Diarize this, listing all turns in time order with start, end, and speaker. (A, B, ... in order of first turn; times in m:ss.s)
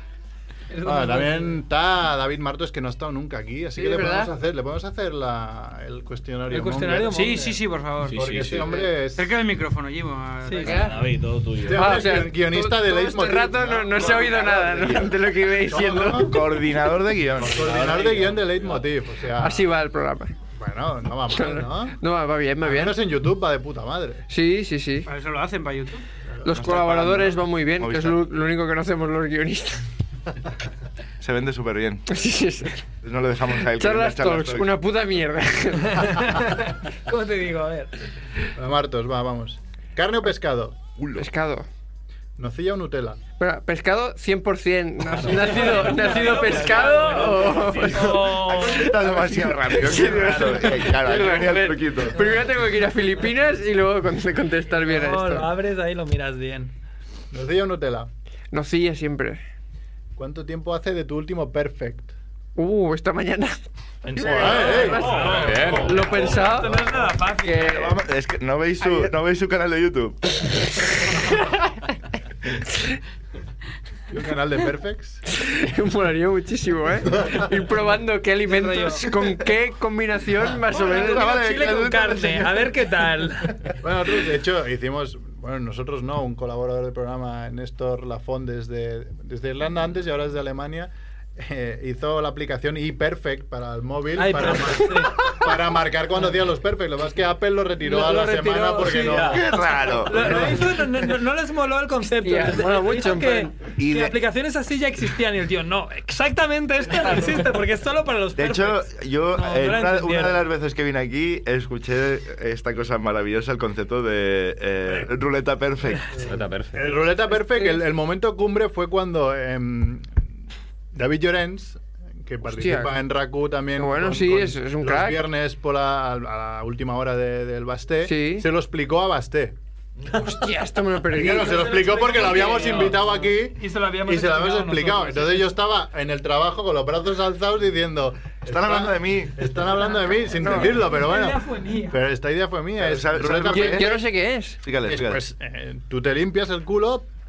0:00.7-0:01.6 A
0:00.8-0:07.4 B
0:03.8-0:04.3 C
0:06.5-0:07.6 A
0:07.1-0:08.2 D
0:08.0-0:08.8 E
0:08.1-0:09.3 B
0:09.1-0:11.0 D
0:10.5-0:10.8 A
0:10.6-0:11.0 C
0:10.6-0:12.0 E
0:11.6-0:15.1 B
0:11.7-0:16.7 C
0:14.1-0:14.5 F
0:15.6-0:16.4 B
0:16.2-0:17.7 F
0:17.4-0:19.7 B
0:17.7-0:18.4 G
0:17.8-0:18.2 E
0:19.3-0:20.3 C
0:20.5-0:22.0 B
0:21.3-0:23.0 C
0:22.6-0:24.2 B
0:24.3-0:25.1 C
0:25.1-0:26.0 D
0:26.4-0:29.8 C
0:26.5-0:28.3 F
0:31.2-0:32.2 F
0:32.1-0:32.8 C
0:33.0-0:34.8 F
0:33.6-0:36.3 C
0:35.9-0:37.9 A
0:38.6-0:40.8 B
0:41.0-0:41.3 F
0:41.2-0:41.6 C
0:42.4-0:43.2 B
0:43.4-0:48.3 C
0:45.2-0:48.9 A
0:47.9-0:52.3 F
0:49.3-0:55.5 C
0:54.7-0:56.7 A
0:57.3-0:58.1 B
0:58.5-0:59.4 C
1:00.2-1:02.1 B
1:02.6-1:03.6 C
1:04.0-1:07.8 A
1:04.1-1:08.0 C
1:04.2-1:05.2 B
1:05.2-1:06.1 G
1:07.6-1:10.4 F
1:08.8-1:09.1 C
1:14.1-1:15.2 B
1:15.3-1:21.4 C
1:18.4-1:19.1 A
1:20.7-1:22.7 F
1:20.7-1:23.6 A
1:23.8-1:39.5 B
1:34.2-1:35.2 A
1:37.8-1:50.4 A
1:39.2-1:40.6 F
1:40.1-1:40.7 B
1:42.2-1:43.6 C
1:43.8-1:44.2 F
1:48.3-1:56.3 F
1:56.1-1:56.9 G
1:56.7-2:00.1 B
2:00.9-2:09.6 B
2:02.4-2:03.0 C
2:03.8-2:05.2 C
2:08.0-2:08.5 C
2:10.1-2:11.8 C
2:11.1-2:23.9 B
2:11.2-2:15.5 A
2:18.5-2:19.4 F
2:20.3-2:20.8 C
2:20.7-2:22.0 A
2:22.8-2:24.1 F
2:23.4-2:24.6 C
2:24.6-2:25.2 F
2:24.8-2:27.0 B